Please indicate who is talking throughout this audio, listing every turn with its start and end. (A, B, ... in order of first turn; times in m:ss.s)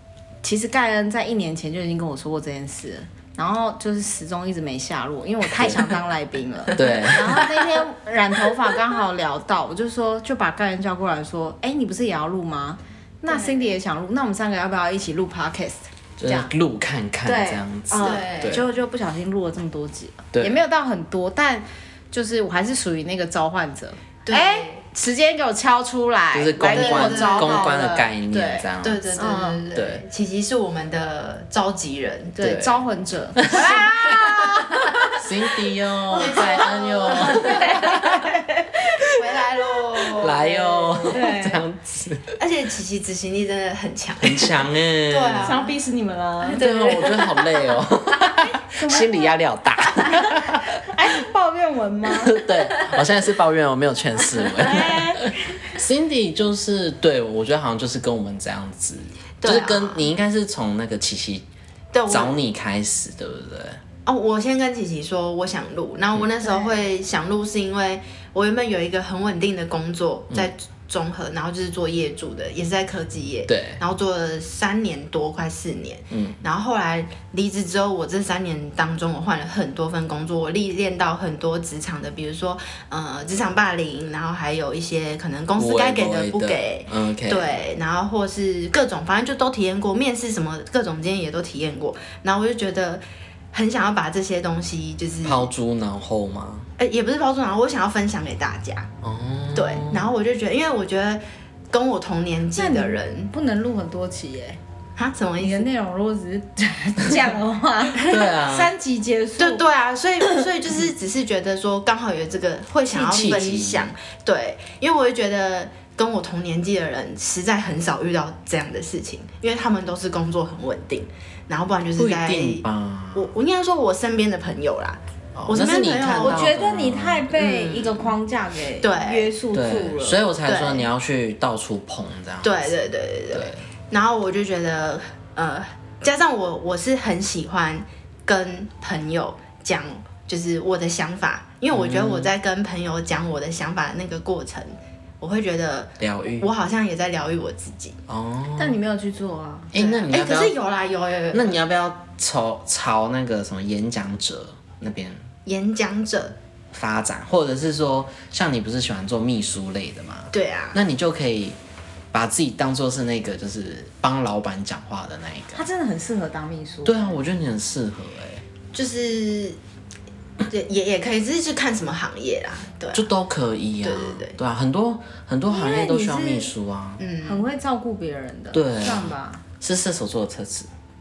0:00.4-0:16.5 A
0:05.6-0:05.8 B
0:06.8-0:07.5 B
0:13.3-0:13.8 C
0:16.2-0:18.6 B
0:17.3-0:29.7 A
0:18.0-0:18.7 C
0:20.3-0:20.6 B
0:24.3-0:24.8 C
0:26.3-0:29.0 B
0:26.6-0:27.8 C
0:28.8-0:32.4 C
0:29.7-0:30.0 B
0:32.4-0:35.2 A
0:32.4-0:32.8 B
0:33.4-0:34.3 B
0:34.6-0:35.1 C
0:35.2-0:38.3 B
0:36.1-0:39.2 A
0:36.2-0:37.9 C
0:39.1-0:41.2 C
0:40.2-0:42.3 B
0:41.1-0:41.6 A
0:42.4-0:45.8 C
0:44.2-0:45.5 B
0:45.4-0:46.6 A
0:46.5-0:47.6 C
0:46.5-0:50.7 B
0:48.4-0:49.4 A
0:50.0-0:52.7 A
0:52.1-1:01.4 B
0:54.6-0:55.6 A
0:59.4-1:00.0 C
1:01.9-1:02.4 C
1:02.1-1:03.8 B
1:04.0-1:35.5 C
1:13.5-1:13.8 B
1:16.1-1:16.4 B
1:25.6-1:27.6 B
1:35.2-1:36.7 B
1:36.8-1:38.9 C
1:39.0-1:40.1 B
1:39.5-1:43.3 C
1:42.6-1:44.6 A
1:45.0-1:45.7 C
1:45.4-1:49.6 A
1:48.0-1:48.3 C
1:48.0-1:48.7 B
1:49.4-2:06.5 C
1:52.9-1:53.9 B
2:02.0-2:03.3 B
2:05.4-2:07.3 B
2:06.2-2:10.3 A
2:07.3-2:08.2 C
2:08.8-2:09.3 C
2:09.5-2:12.8 B
2:10.5-2:10.9 C
2:12.4-2:28.0 C
2:13.3-2:13.6 B
2:21.7-2:22.3 B
2:26.0-2:26.5 B
2:28.1-2:28.8 B
2:28.6-2:29.7 A
2:29.7-2:30.5 B
2:29.8-2:31.5 C
2:31.3-2:35.2 B
2:35.4-2:36.4 C
2:36.7-2:41.6 B
2:40.3-2:40.8 C
2:42.1-2:45.6 B
2:45.6-2:47.2 A
2:46.8-2:48.4 B
2:48.7-2:49.6 C
2:50.5-2:53.1 C
2:52.9-2:57.0 B
2:53.8-2:54.4 C
2:55.5-2:56.5 A
2:57.0-2:57.4 C
2:57.2-2:59.4 A
2:58.5-3:00.7 B